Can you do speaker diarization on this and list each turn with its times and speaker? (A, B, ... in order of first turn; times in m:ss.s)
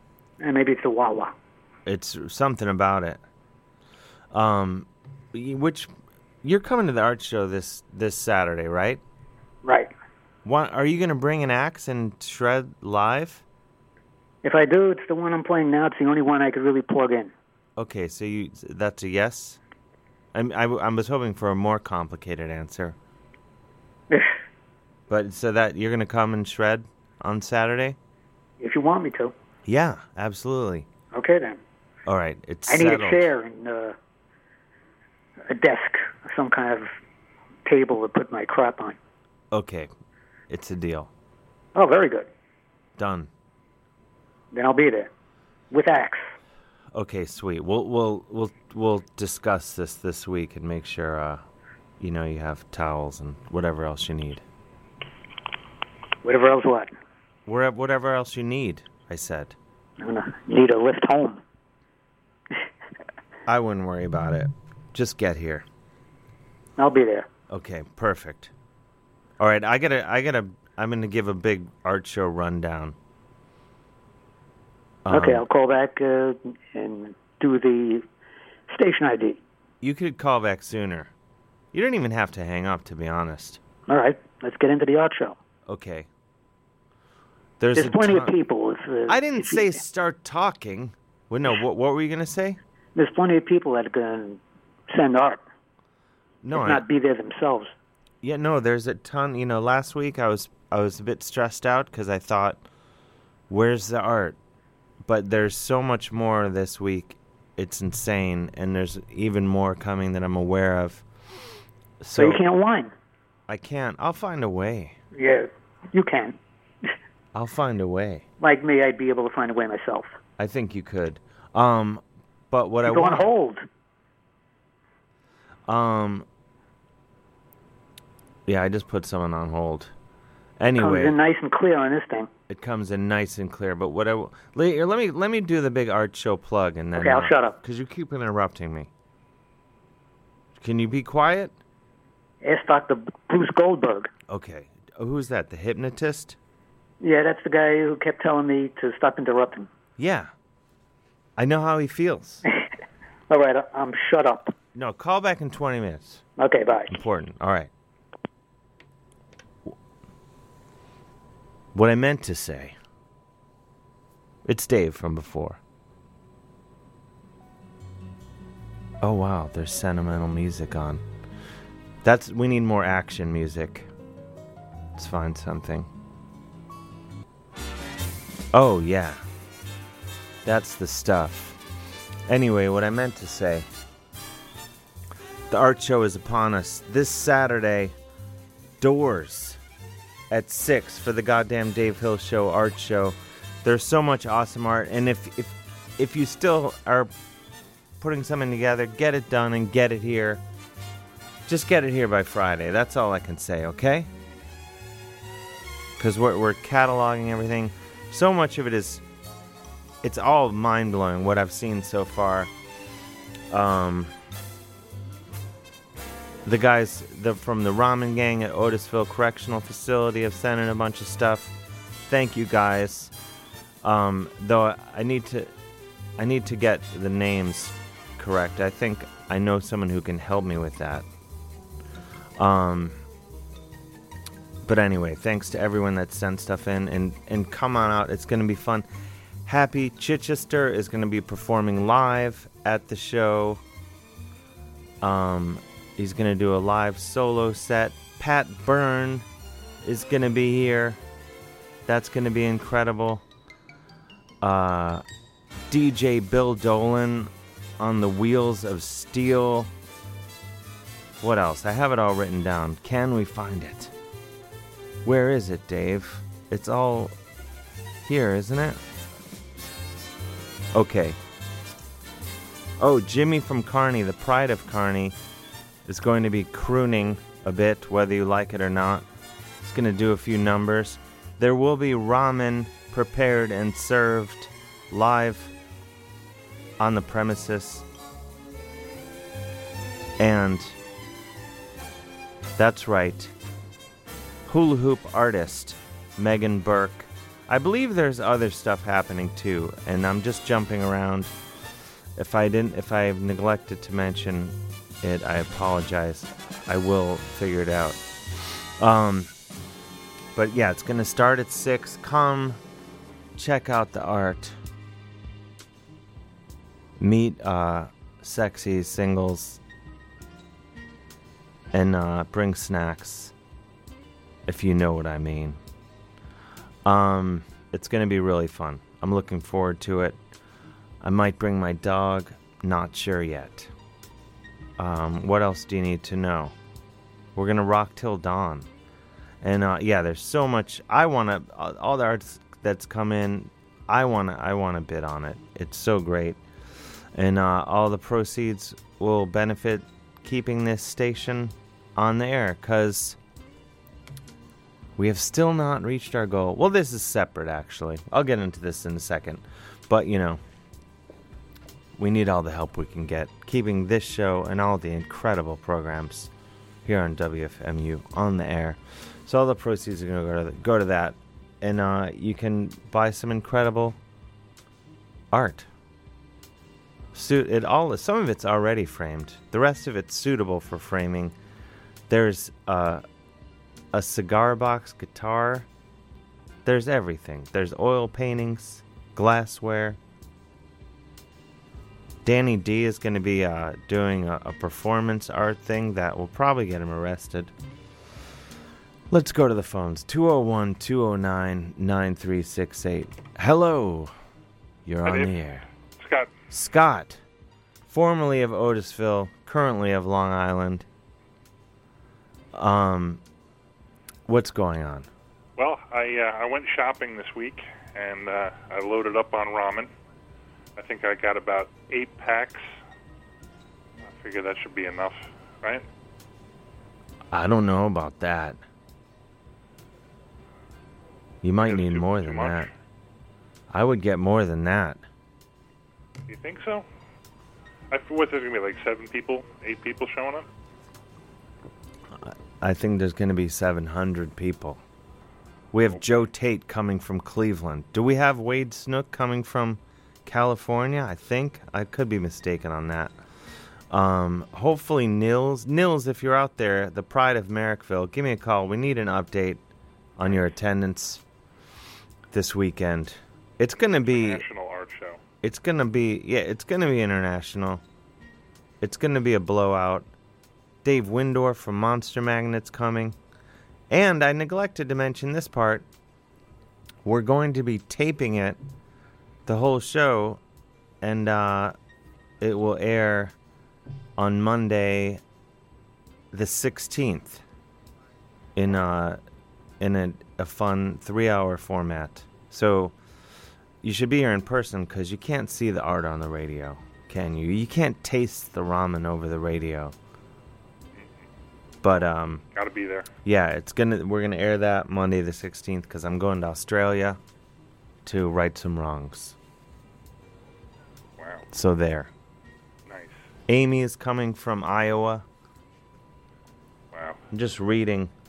0:00.4-0:01.3 A
0:01.8-0:03.2 B
0:04.3-0:05.9 B
0:06.4-0:09.0 B
0:09.6-0:09.9 A
0:10.4-0:13.4 B
0:14.4-0:17.3 A
0:17.8-0:19.6 B
0:20.3-0:23.0 B
0:25.1-0:28.0 B
0:28.6-0:29.3 A
0:29.6-0:30.9 B
0:31.1-0:31.6 A
0:32.0-0:33.2 B
0:32.7-0:34.0 A
0:35.5-0:36.9 A
0:37.6-0:39.0 A
0:39.5-0:39.9 B
0:40.5-0:41.1 B
0:41.8-0:42.3 A
0:43.0-0:43.3 B
0:44.5-0:45.1 A
0:45.7-0:46.3 A
0:46.9-0:51.4 B
0:52.0-0:54.4 B
0:56.2-0:56.9 A
0:57.4-0:59.6 B
1:00.0-1:01.4 A
1:03.4-1:05.6 B
1:06.8-1:07.3 A
1:07.5-1:08.5 B
1:09.4-1:13.0 B
1:15.0-1:15.4 B
1:15.1-1:18.0 A
1:18.7-1:19.4 A
1:19.8-1:21.1 B
1:21.7-1:23.6 B
1:23.9-1:25.4 A
1:25.6-1:26.1 B
1:27.6-1:28.3 B
1:27.7-1:29.8 A
1:29.1-1:32.6 B
1:33.0-1:35.4 A
1:36.4-1:36.8 B
1:36.5-1:37.7 A
1:38.2-1:42.6 B
1:43.5-1:44.4 B
1:45.0-1:51.0 B
1:52.0-1:52.4 B
1:52.2-1:52.9 A
1:53.5-1:55.0 B
1:55.1-1:56.4 A
1:57.3-1:58.2 B
1:58.4-2:00.1 A
2:00.4-2:03.2 B
2:02.8-2:03.6 A
2:05.7-2:06.2 B
2:08.4-2:09.9 B
2:10.6-2:11.2 B
2:10.8-2:12.3 A
2:12.5-2:18.9 B
2:17.0-2:17.6 A
2:20.6-2:21.5 B
2:22.4-2:24.1 A
2:24.3-2:26.4 B
2:27.0-2:29.7 A
2:30.0-2:30.3 B
2:31.4-2:32.4 B
2:33.3-2:34.5 A
2:34.7-2:36.2 B
2:36.4-2:37.0 A
2:36.9-2:37.7 B
2:41.7-2:42.8 B
2:44.4-2:45.6 B
2:49.0-2:51.0 B
2:52.0-2:53.9 B
2:55.0-2:55.9 B
2:58.5-2:59.2 B
3:00.4-3:01.6 B
3:02.3-3:03.7 B
3:05.5-3:07.9 B
3:08.8-3:09.6 B
3:10.3-3:17.1 B
3:18.0-3:20.4 B
3:21.4-3:24.1 B
3:26.0-3:29.0 B
3:30.0-3:32.5 B
3:33.5-3:34.1 B
3:36.4-3:41.5 B
3:42.1-3:43.1 B
3:43.8-3:45.5 B
3:46.2-3:51.0 B
3:52.4-3:53.0 B
3:54.6-3:58.9 B
3:59.4-4:03.6 B
4:05.0-4:09.2 B
4:09.8-4:11.0 B
4:11.8-4:13.2 B
4:14.4-4:15.0 B
4:15.7-4:19.7 B
4:21.2-4:23.9 B
4:25.0-4:27.1 B
4:28.0-4:28.8 B
4:30.7-4:31.2 B
4:32.8-4:35.2 B
4:35.8-4:39.0 B
4:39.6-4:45.5 B
4:46.8-4:47.8 B
4:50.2-4:50.8 B
4:52.6-4:53.3 B
4:54.5-5:01.3 B
5:02.2-5:09.3 B
5:10.3-5:12.6 B
5:13.4-5:14.6 B
5:17.0-5:19.6 B
5:21.7-5:23.3 B
5:24.4-5:25.6 B
5:26.8-5:30.2 B
5:31.0-5:33.7 B
5:34.8-5:36.5 B
5:37.3-5:38.7 B
5:39.4-5:46.4 B
5:47.1-5:53.2 B
5:55.0-6:00.4 B
6:02.0-6:06.3 B
6:06.8-6:14.0 B
6:15.3-6:15.7 B
6:17.1-6:21.3 B
6:22.1-6:23.0 B
6:23.9-6:25.7 B
6:26.6-6:30.0 B
6:32.2-6:37.5 B
6:39.1-6:44.1 B
6:44.8-6:45.6 B
6:45.0-6:45.3 C
6:46.0-6:46.3 C
6:46.5-6:47.2 B
6:47.9-6:50.8 B
6:52.5-6:53.2 B
6:54.3-6:55.1 B
6:55.6-6:59.9 C
7:00.8-7:02.8 C
7:04.1-7:05.8 C
7:07.3-7:08.6 B
7:11.4-7:12.7 B
7:11.6-7:12.7 C
7:13.7-7:15.0 B
7:16.3-7:16.8 C
7:17.9-7:20.5 C
7:22.2-7:24.8 B
7:25.7-7:33.1 B
7:33.9-7:39.6 B
7:40.2-7:41.2 B
7:40.2-7:40.5 C
7:42.3-7:44.4 B
7:44.0-7:45.2 C
7:45.4-7:47.8 B
7:48.8-7:50.1 B
7:50.8-7:53.2 B
7:53.9-7:55.8 B
7:57.0-7:58.6 B
7:59.4-8:00.4 B
8:01.0-8:01.8 B
8:02.4-8:03.3 B
8:04.2-8:05.2 B
8:06.3-8:07.4 B
8:08.6-8:09.2 B
8:09.8-8:12.9 B
8:13.8-8:19.9 B
8:21.8-8:22.4 B
8:22.5-8:23.1 C
8:23.2-8:27.2 B
8:28.0-8:29.4 B
8:31.2-8:31.4 C
8:31.5-8:32.1 B
8:32.9-8:33.2 C
8:33.5-8:35.2 B
8:36.9-8:37.2 C
8:37.3-8:38.1 B